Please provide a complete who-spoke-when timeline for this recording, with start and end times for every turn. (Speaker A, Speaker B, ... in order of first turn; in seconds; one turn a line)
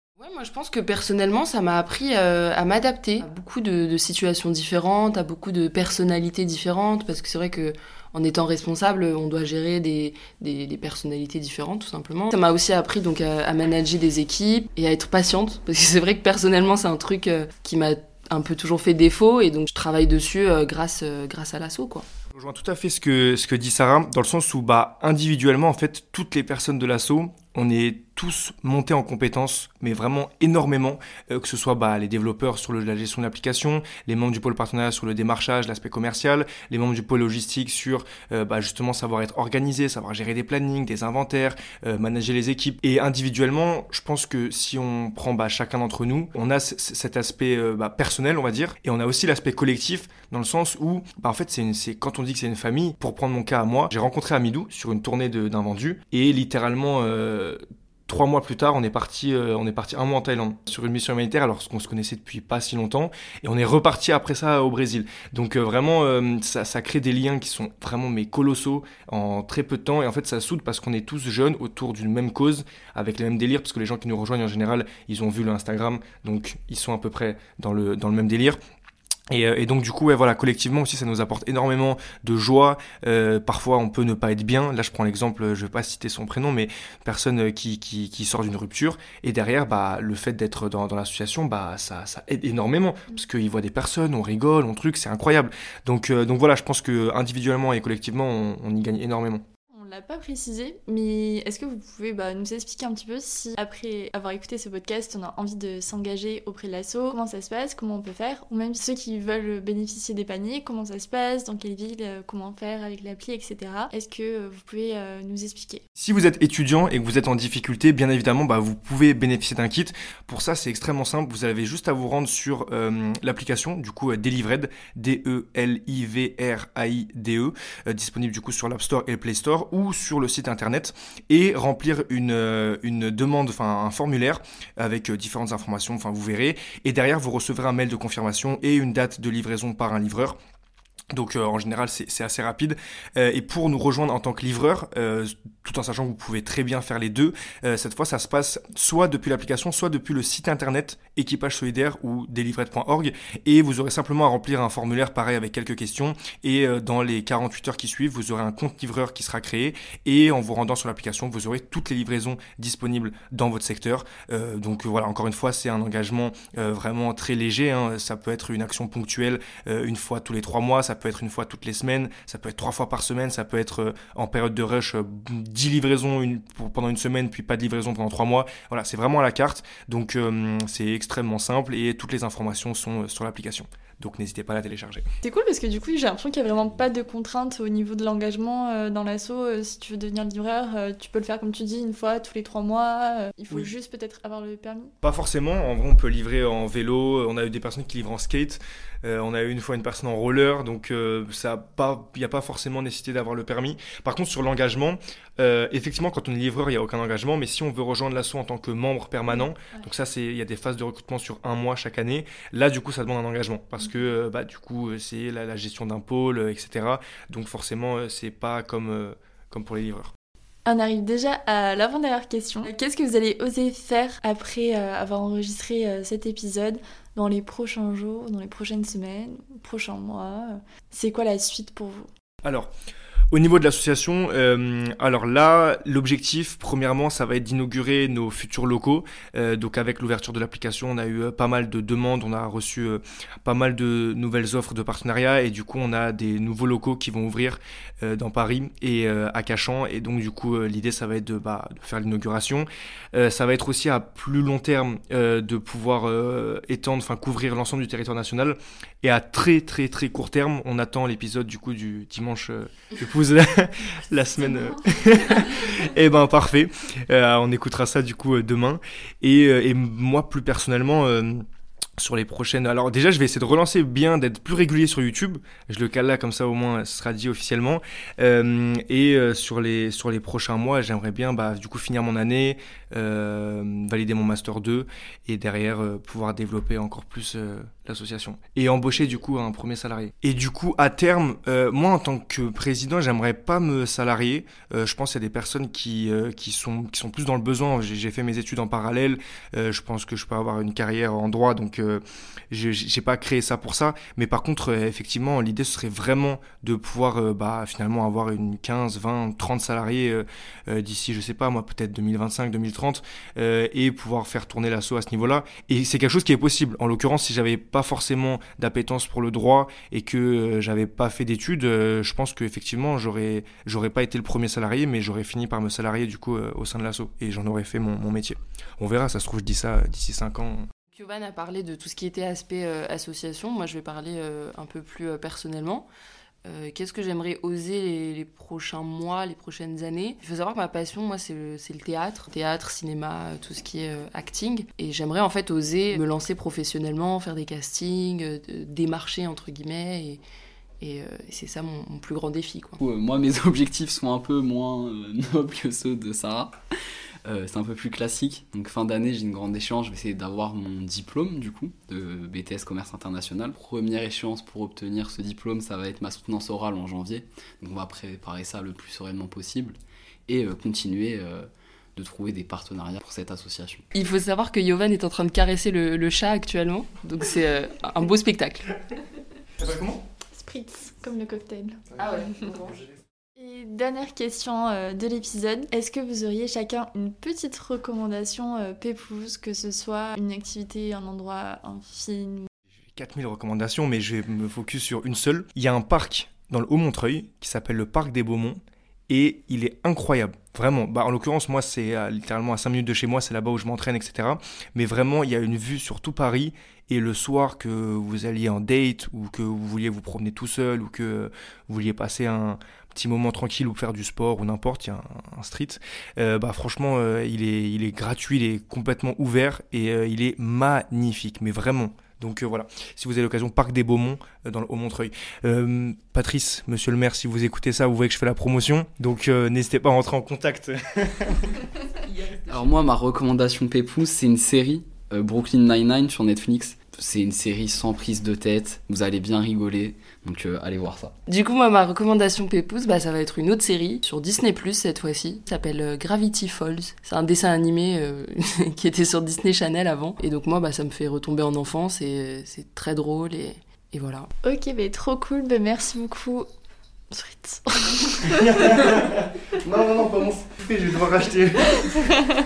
Speaker A: 0.2-22.1
Speaker B: 22.3-78.6
Speaker B: 79.3-99.4
Speaker C: 99.7-115.8
Speaker B: 116.0-140.4
Speaker B: 141.1-185.1
Speaker C: 185.2-194.9
Speaker B: 195.0-220.1
Speaker C: 220.7-232.1
Speaker B: 232.4-232.7
Speaker B: 233.3-271.4
Speaker B: 272.0-330.7
Speaker A: 330.9-335.9
Speaker A: 336.4-350.2
Speaker A: 350.8-352.8
Speaker D: 352.8-356.6
Speaker D: 357.2-373.9
Speaker A: 373.9-378.7
Speaker B: 379.6-380.0
Speaker C: 380.3-381.8
Speaker A: 382.0-382.8
Speaker C: 383.4-392.5
Speaker B: 392.9-431.6
Speaker A: 432.0-432.9
Speaker D: 432.5-441.1
Speaker A: 441.3-454.3
Speaker C: 454.4-456.5
Speaker C: 457.1-458.5
Speaker B: 458.2-462.2